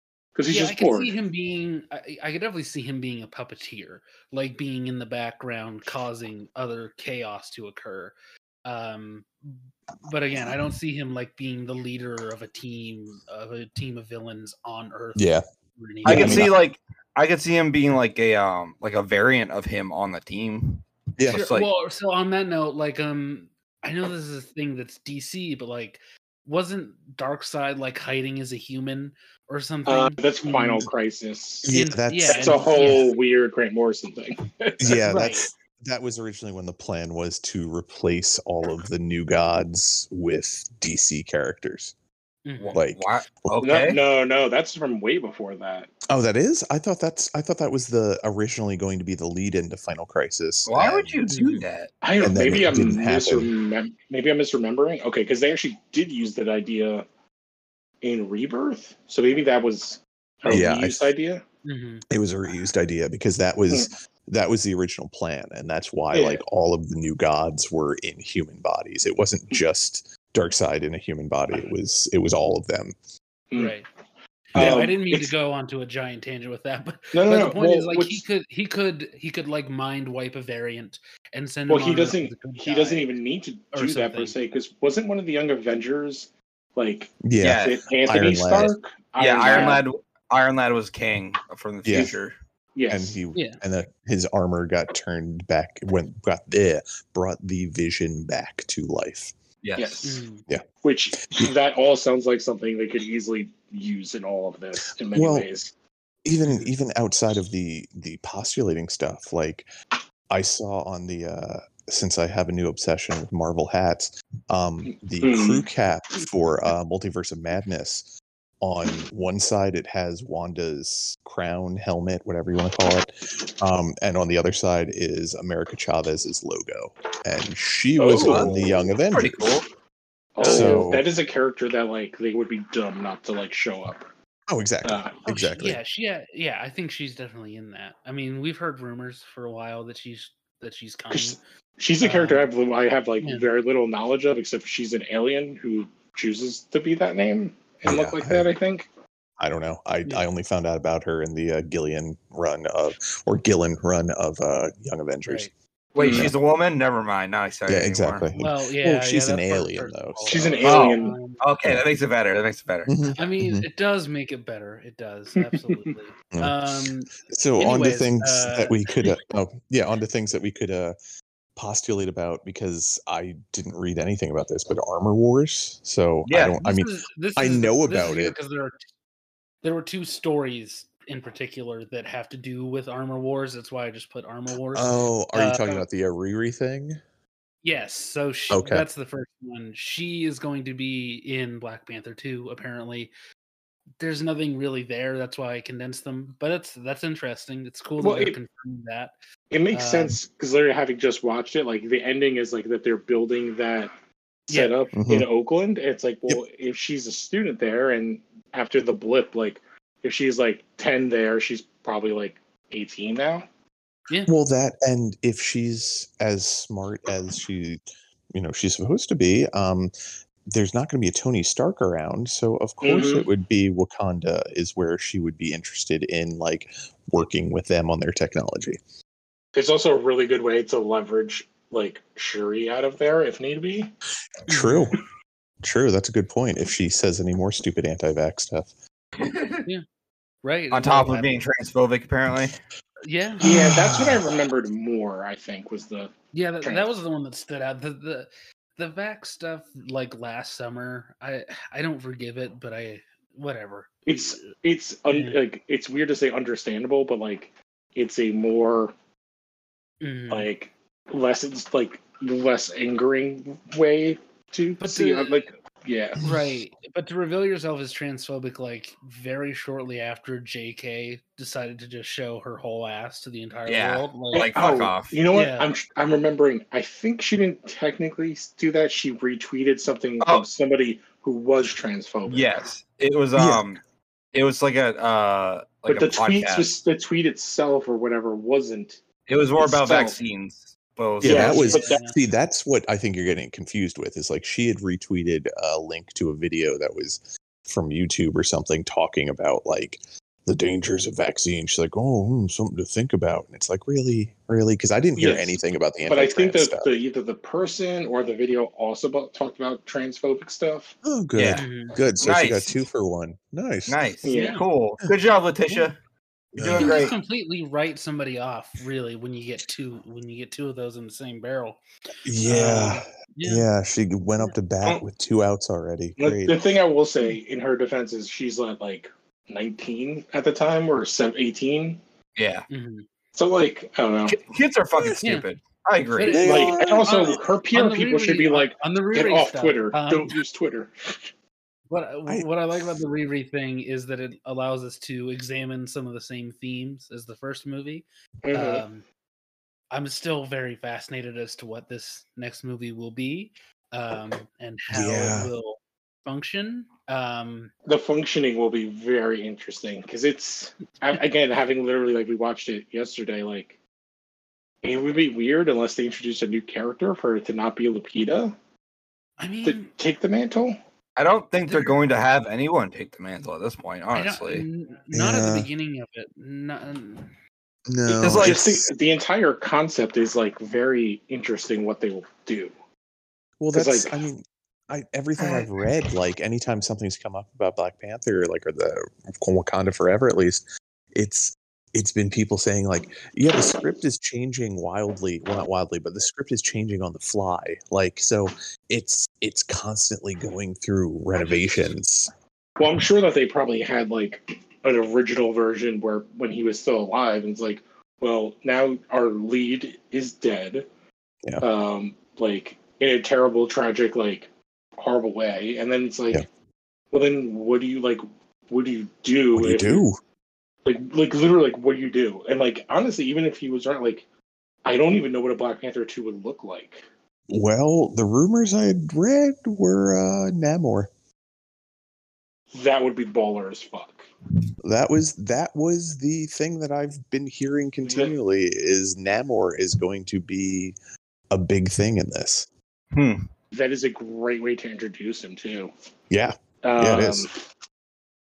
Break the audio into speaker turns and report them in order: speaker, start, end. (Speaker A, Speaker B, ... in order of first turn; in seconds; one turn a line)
Speaker A: 0.3-1.1
Speaker B: 0.5-16.6
Speaker C: 15.2-15.4
Speaker C: 16.0-16.5
Speaker D: 16.0-21.7
Speaker C: 21.2-21.4
Speaker B: 21.3-30.9
Speaker A: 29.9-31.7
Speaker C: 31.6-33.0
Speaker B: 31.7-33.1
Speaker A: 32.2-35.0
Speaker C: 34.8-41.9
Speaker B: 35.0-35.5
Speaker B: 42.4-42.8
Speaker D: 42.6-44.0
Speaker C: 42.7-43.6
Speaker A: 43.6-45.9
Speaker C: 46.1-51.3
Speaker D: 50.6-51.9
Speaker B: 51.3-51.6
Speaker A: 52.0-57.0
Speaker C: 52.2-53.5
Speaker A: 58.0-61.4
Speaker C: 60.5-61.0
Speaker B: 61.6-62.0
Speaker C: 62.1-72.9
Speaker A: 66.1-66.4
Speaker B: 73.6-73.9
Speaker B: 74.5-83.1
Speaker C: 74.5-74.8
Speaker A: 74.5-75.3
Speaker A: 77.1-78.2
Speaker A: 81.7-89.8
Speaker B: 83.7-84.3
Speaker C: 87.2-88.7
Speaker D: 87.4-87.8
Speaker D: 89.2-92.3
Speaker B: 89.4-89.8
Speaker C: 91.8-92.1
Speaker A: 92.7-93.2
Speaker C: 92.9-99.3
Speaker B: 93.3-93.6
Speaker D: 99.6-100.0
Speaker A: 99.8-100.2
Speaker B: 100.0-100.4
Speaker A: 100.8-105.7
Speaker C: 101.2-101.5
Speaker C: 105.1-105.5
Speaker C: 106.2-109.7
Speaker C: 110.3-118.1
Speaker A: 114.8-115.6
Speaker C: 118.6-129.6
Speaker A: 128.0-128.9
Speaker D: 128.2-128.5
Speaker D: 129.1-129.7
Speaker A: 130.3-134.1
Speaker B: 130.4-130.9
Speaker C: 130.4-131.1
Speaker C: 134.5-135.8
Speaker A: 134.8-135.2
Speaker B: 135.2-141.4
Speaker A: 141.1-148.9
Speaker B: 142.0-142.4
Speaker C: 147.8-148.5
Speaker C: 149.4-155.5
Speaker B: 155.2-155.5
Speaker D: 155.9-158.2
Speaker A: 156.0-156.2
Speaker C: 156.0-156.3
Speaker C: 157.7-160.5
Speaker B: 158.4-161.4
Speaker A: 160.3-161.2
Speaker D: 160.6-162.9
Speaker C: 162.9-163.7
Speaker B: 163.2-168.9
Speaker A: 165.3-165.6
Speaker C: 166.3-166.6
Speaker C: 167.3-170.9
Speaker C: 171.6-178.3
Speaker D: 176.2-176.6
Speaker B: 176.6-178.8
Speaker B: 179.6-185.8
Speaker C: 184.7-187.0
Speaker B: 187.6-193.1
Speaker C: 188.5-188.8
Speaker B: 194.0-199.1
Speaker A: 198.0-198.4
Speaker A: 199.5-203.9
Speaker B: 199.7-200.1
Speaker A: 204.5-213.5
Speaker C: 204.9-205.3
Speaker C: 214.3-217.8
Speaker C: 218.3-219.9
Speaker C: 220.5-228.8
Speaker A: 222.8-223.3
Speaker A: 229.5-233.9
Speaker C: 234.5-235.0
Speaker B: 234.5-235.0
Speaker C: 235.6-238.7
Speaker D: 239.2-239.6
Speaker B: 240.4-241.4
Speaker D: 240.7-242.6
Speaker B: 243.0-243.6
Speaker A: 243.4-246.8
Speaker C: 243.4-244.3
Speaker B: 246.3-254.5
Speaker A: 254.1-258.9
Speaker B: 255.1-255.4
Speaker B: 260.0-260.5
Speaker A: 260.3-266.2
Speaker B: 264.8-265.4
Speaker B: 266.2-274.5
Speaker D: 273.6-275.2
Speaker A: 274.3-282.6
Speaker B: 275.3-275.7
Speaker D: 280.2-280.4
Speaker D: 282.3-283.8
Speaker C: 283.4-283.6
Speaker D: 284.3-286.7
Speaker A: 285.9-289.0
Speaker D: 289.3-291.7
Speaker A: 289.6-290.2
Speaker C: 291.2-306.9
Speaker A: 291.2-292.0
Speaker B: 291.4-292.1
Speaker A: 305.2-305.6
Speaker A: 306.1-310.9
Speaker C: 311.0-314.0
Speaker D: 311.4-311.6
Speaker B: 311.5-312.0
Speaker D: 312.2-312.7
Speaker D: 313.9-315.9
Speaker A: 314.2-314.6
Speaker B: 314.3-314.6
Speaker C: 316.5-317.0
Speaker D: 316.5-317.1
Speaker B: 316.7-321.8
Speaker C: 322.2-326.6
Speaker B: 322.4-323.7
Speaker A: 326.2-332.0
Speaker D: 332.4-332.6
Speaker B: 332.7-333.1
Speaker A: 333.3-334.4
Speaker D: 334.3-336.4
Speaker B: 336.2-340.4
Speaker C: 336.2-337.4
Speaker A: 336.4-341.3
Speaker B: 341.9-349.0
Speaker A: 348.4-348.8
Speaker B: 349.9-357.7
Speaker C: 354.9-355.5
Speaker A: 357.9-363.8
Speaker A: 364.8-368.5
Speaker B: 369.4-369.9
Speaker A: 369.6-370.8
Speaker D: 371.2-374.6
Speaker B: 374.1-377.3
Speaker C: 375.1-375.7
Speaker C: 377.9-378.9
Speaker D: 378.1-378.6
Speaker A: 378.2-382.7
Speaker C: 383.6-390.6
Speaker A: 383.7-384.2
Speaker B: 385.4-385.7
Speaker C: 391.1-402.3
Speaker A: 401.4-401.9
Speaker A: 402.8-410.9
Speaker A: 411.6-416.4
Speaker A: 417.1-420.0
Speaker C: 419.5-420.2
Speaker A: 420.8-424.2
Speaker A: 424.8-427.0
Speaker C: 427.5-431.1
Speaker A: 432.7-434.2
Speaker C: 434.8-440.9
Speaker A: 438.0-438.3
Speaker C: 441.5-442.7
Speaker D: 443.1-443.4
Speaker A: 443.7-445.9
Speaker C: 446.3-447.5
Speaker A: 446.8-447.6